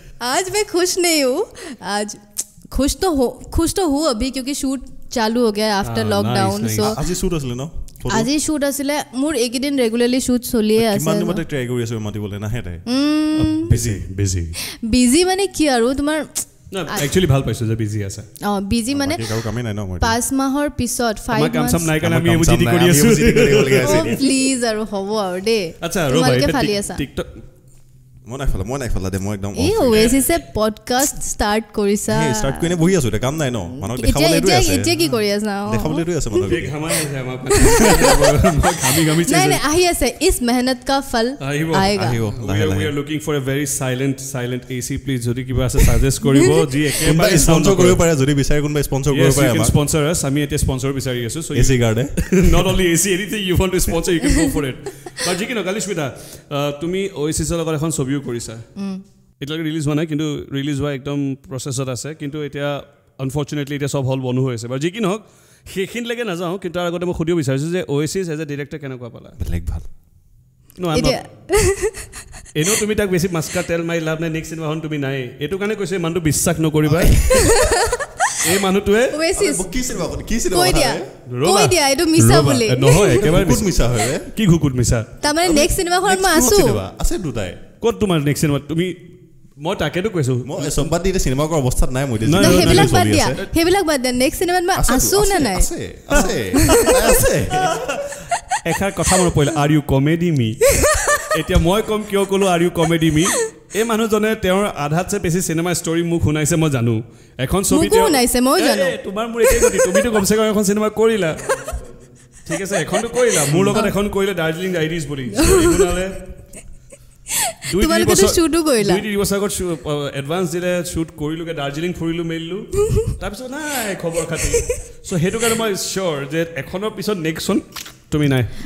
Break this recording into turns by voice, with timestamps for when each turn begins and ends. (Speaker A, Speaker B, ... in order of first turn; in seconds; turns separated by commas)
Speaker A: 0.2-7.0, Speaker B: 5.8-7.0, Speaker C: 6.8-8.3, Speaker A: 8.1-11.4, Speaker C: 10.8-12.8, Speaker A: 12.9-13.7, Speaker B: 13.3-14.6, Speaker C: 13.7-14.1, Speaker A: 14.8-17.1, Speaker B: 16.7-18.3, Speaker A: 18.4-19.3, Speaker C: 18.9-20.2, Speaker A: 20.0-21.9, Speaker B: 21.3-24.2, Speaker C: 22.0-24.2, Speaker A: 23.8-27.0, Speaker B: 25.8-27.3, Speaker C: 28.3-30.2, Speaker A: 29.6-32.8, Speaker B: 29.9-30.2, Speaker C: 32.1-35.0, Speaker A: 33.8-36.6, Speaker C: 35.6-36.8, Speaker B: 36.5-39.6, Speaker A: 37.5-38.1, Speaker A: 39.3-42.2, Speaker B: 41.4-48.0, Speaker C: 41.9-42.9, Speaker A: 46.3-46.6, Speaker C: 47.0-49.8, Speaker B: 49.1-58.7, Speaker C: 51.5-52.7, Speaker A: 58.8-59.0, Speaker B: 59.4-69.4, Speaker C: 69.4-69.9, Speaker B: 70.8-71.2, Speaker A: 70.9-72.1, Speaker B: 72.5-77.5, Speaker C: 76.8-77.9, Speaker A: 77.3-78.3, Speaker B: 78.4-79.2, Speaker A: 79.1-79.7, Speaker C: 79.3-81.1, Speaker A: 80.5-83.3, Speaker B: 81.3-85.1, Speaker C: 83.0-84.3, Speaker A: 85.2-86.8, Speaker C: 85.4-87.6, Speaker B: 87.8-89.0, Speaker B: 89.6-90.9, Speaker C: 90.4-93.5, Speaker B: 92.2-93.0, Speaker A: 92.4-95.7, Speaker C: 94.7-97.8, Speaker B: 96.1-96.9, Speaker A: 96.2-97.0, Speaker B: 97.5-100.6, Speaker A: 100.9-101.2, Speaker B: 101.1-111.6, Speaker A: 107.7-110.1, Speaker B: 112.5-116.2, Speaker A: 113.7-113.9, Speaker A: 115.3-115.9, Speaker A: 117.7-119.0, Speaker B: 117.7-128.5